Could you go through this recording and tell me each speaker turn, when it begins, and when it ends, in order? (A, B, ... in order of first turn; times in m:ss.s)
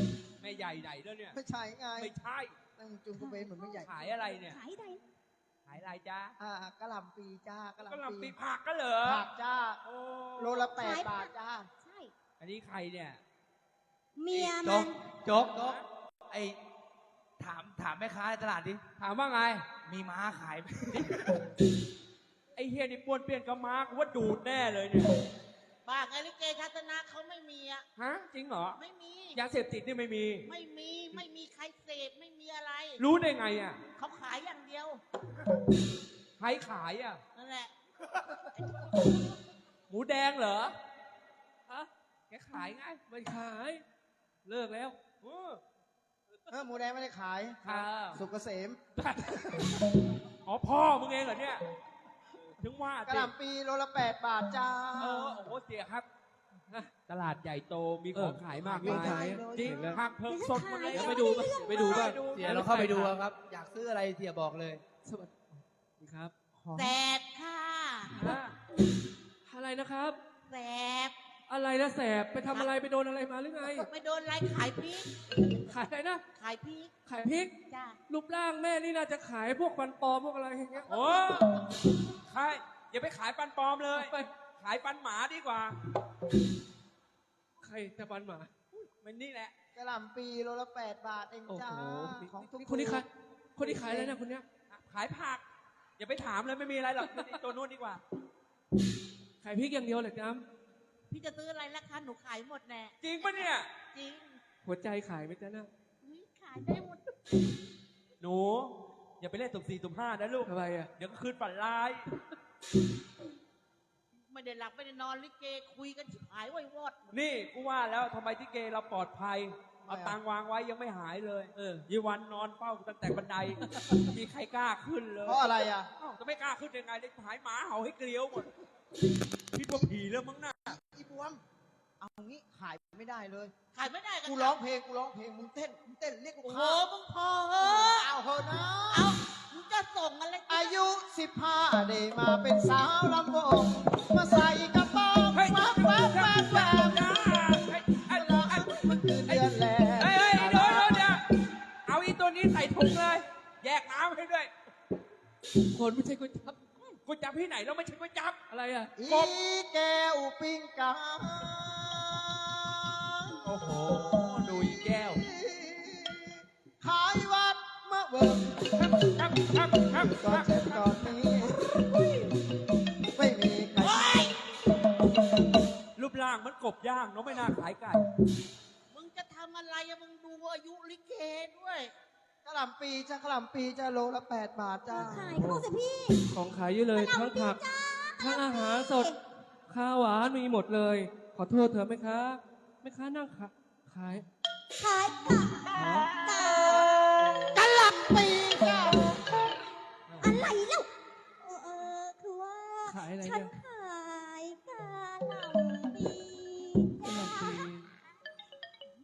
0:00.4-0:01.4 A
0:01.3-0:02.1 B
0:02.0-0:02.5 A
0:02.8-0:03.9 B
0:03.1-0:05.0 C
0:03.8-0:04.6 A
0:05.6-0:06.3 A
0:06.4-0:08.4 B
0:07.9-0:09.2 A
0:09.0-0:09.8 B
0:09.8-0:10.7 A
0:10.4-0:11.7 B
0:10.8-0:12.1 C
0:12.4-0:13.2 A
0:14.2-0:15.0 C
0:14.3-0:16.6 D
0:15.5-0:15.8 A
0:17.4-0:18.8 D
0:19.0-0:19.6 A
0:19.8-0:21.4 D
0:22.5-0:25.2 A
0:25.8-0:27.8 E
0:28.0-0:28.8 A
0:28.8-0:29.4 E
0:29.3-0:30.5 A
0:30.4-0:33.0 E
0:33.0-0:33.8 A
0:34.0-0:35.0 E
0:36.4-0:37.2 A
0:37.3-0:37.7 E
0:39.9-0:40.7 A
0:42.3-0:43.0 A
0:43.1-0:43.8 F
0:44.4-0:45.0 F
0:45.2-0:45.6 A
0:46.5-0:47.6 B
0:47.6-0:48.2 A
0:48.1-0:48.8 B
0:49.0-0:49.8 A
0:49.4-0:49.8 B
0:50.4-0:51.6 A
0:52.4-0:53.3 A
0:53.0-0:55.4 B
0:55.0-0:56.0 A
0:57.1-1:03.1 A
0:58.1-1:00.0 F
0:58.7-1:00.0 B
1:00.2-1:02.2 C
1:00.8-1:03.1 F
1:02.2-1:04.8 D
1:05.0-1:06.9 F
1:06.7-1:08.2 E
1:08.2-1:08.6 A
1:09.5-1:10.2 F
1:10.5-1:11.1 E
1:11.5-1:13.9 F
1:13.7-1:15.6 E
1:15.7-1:16.2 F
1:16.3-1:16.9 E
1:17.1-1:17.5 F
1:17.7-1:18.0 E
1:18.1-1:20.8 F
1:20.7-1:21.4 B
1:20.9-1:21.6 A
1:22.3-1:25.8 A
1:23.9-1:24.3 F
1:27.6-1:28.5 F
1:28.7-1:29.5 A
1:29.7-1:33.0 B
1:31.5-1:34.4 F
1:33.6-1:34.2 B
1:34.7-1:35.4 A
1:36.0-1:38.0 A
1:39.4-1:40.4 F
1:41.1-1:43.0 E
1:43.0-1:43.7 A
1:43.9-1:44.4 E
1:44.6-1:45.7 F
1:46.0-1:47.4 E
1:48.2-1:52.1 A
1:50.5-1:50.9 F
1:54.3-1:57.1 E
1:57.1-2:08.5 A
1:59.8-2:00.2 B
2:01.6-2:01.8 F
2:05.2-2:05.9 B
2:09.5-2:10.8 A
2:10.7-2:11.4 B
2:12.0-2:13.5 B
2:13.7-2:14.6 E
2:14.2-2:16.8 B
2:16.4-2:18.1 E
2:17.6-2:19.1 B
2:18.9-2:20.8 E
2:20.5-2:31.2 B
2:25.3-2:31.2 A
2:31.9-2:34.5 A
2:35.7-2:36.9 F
2:37.0-2:38.4 A
2:38.5-2:38.9 F
2:39.0-2:43.4 B
2:39.1-2:39.3 A
2:43.4-2:45.2 A
2:45.0-2:49.2 B
2:48.8-2:50.9 A
2:49.8-2:52.0 B
2:53.1-2:54.3 B
2:53.8-2:54.4 E
2:56.0-2:58.1 A
2:58.9-3:01.9 E
3:02.4-3:05.4 B
3:04.9-3:06.3 C
3:05.3-3:05.7 F
3:06.2-3:07.6 F
3:06.9-3:09.2 C
3:08.2-3:09.1 F
3:09.7-3:14.2 F
3:14.8-3:17.1 C
3:15.7-3:16.2 F
3:17.2-3:17.5 F
3:17.5-3:19.2 B
3:20.1-3:20.3 A
3:20.2-3:20.9 C
3:21.4-3:27.7 C
3:22.8-3:23.5 F
3:27.0-3:27.8 F